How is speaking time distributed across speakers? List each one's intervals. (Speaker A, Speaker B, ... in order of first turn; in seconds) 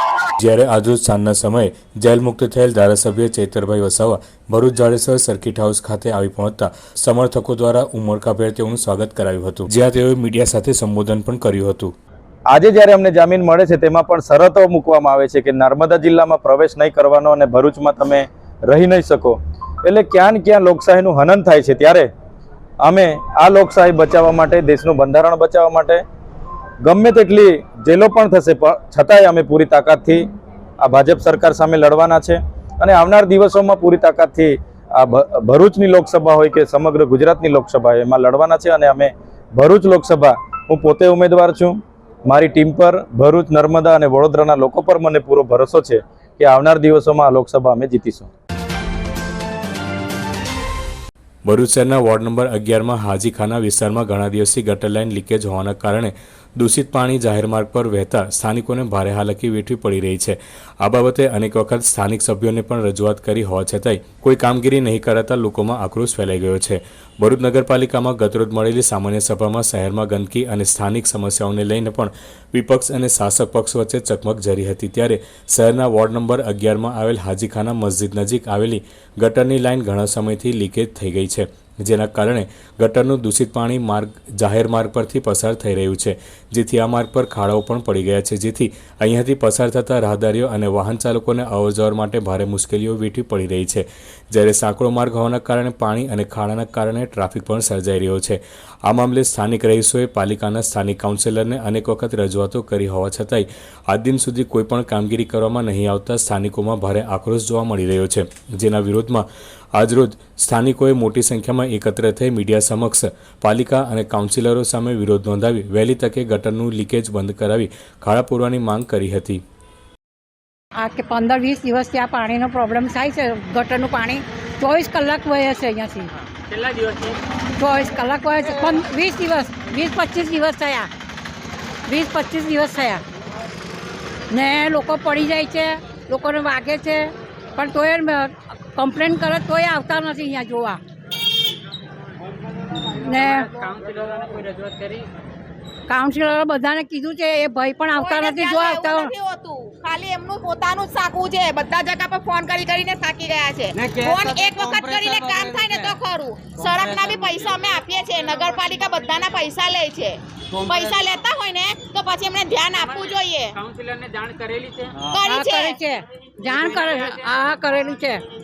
Speaker A: 0.4-11.9, 51.5-119.4
Speaker B: 12.5-22.1, 22.8-26.0, 26.8-30.2, 30.8-48.3
Speaker C: 120.8-126.1, 127.6-130.9, 131.9-133.0, 134.3-140.8, 143.0-143.5, 145.9-149.1, 165.2-168.2
Speaker D: 126.3-127.2, 143.1-145.1, 162.8-164.9, 166.5-166.9
Speaker E: 147.9-163.5, 165.1-165.8